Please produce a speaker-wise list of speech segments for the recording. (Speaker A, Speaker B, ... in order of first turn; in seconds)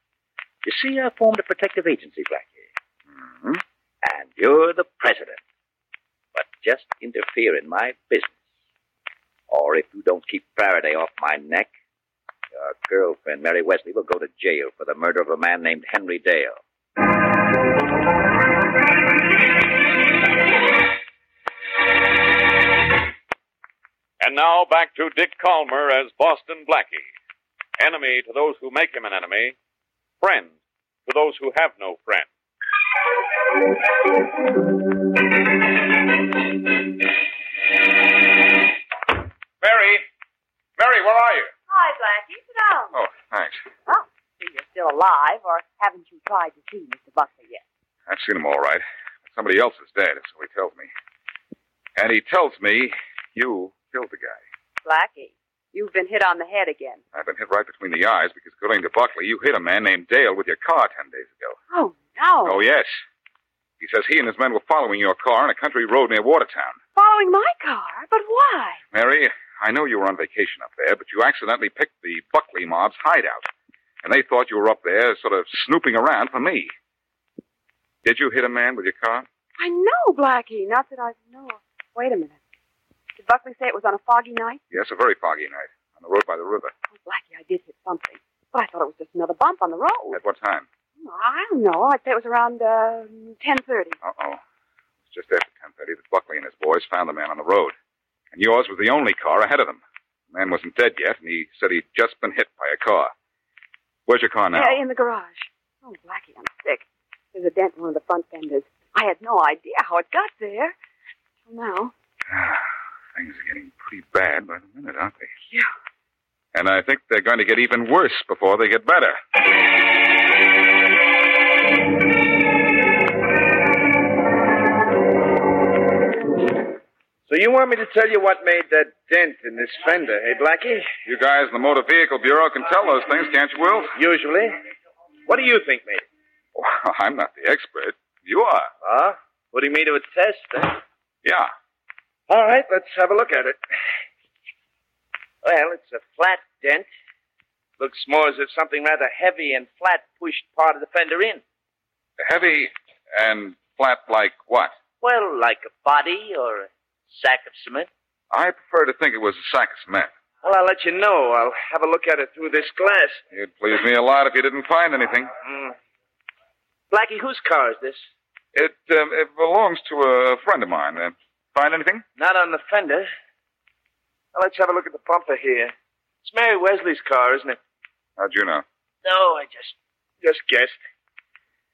Speaker A: 0.6-2.7, 4.0-5.4, 6.3-8.4, 9.5-11.7, 12.5-16.6, 155.0-157.9
Speaker B: 3.3-3.6, 39.6-40.0, 40.8-41.5, 42.9-43.6, 48.1-50.9, 52.0-54.4, 57.1-61.6, 62.4-63.0, 63.8-66.8, 68.9-73.5, 74.0-76.7, 78.0-79.3, 84.7-86.7, 90.1-90.7, 94.0-94.4, 95.1-97.8, 98.3-103.1, 104.1-104.8, 112.3-115.3, 116.5-119.2, 131.0-133.9, 136.6-138.7, 141.2-141.5, 152.2-154.8, 158.3-160.1, 163.3-165.3, 168.5-172.0, 178.2-178.6
Speaker C: 24.2-27.1, 27.8-29.6, 30.2-32.3
Speaker D: 41.7-42.9, 43.9-47.6, 54.8-57.0, 61.7-62.6, 67.0-68.8, 79.6-82.4, 83.2-84.6, 87.0-90.2, 91.0-94.0, 104.5-110.7, 111.5-111.9
Speaker E: 127.3-130.9, 133.9-134.6, 135.2-136.0, 138.8-140.8, 142.3-143.6, 145.4-146.9, 147.8-151.4, 160.4-163.2, 165.4-165.7, 166.9-168.0, 172.2-173.1, 174.3-177.6, 179.0-180.8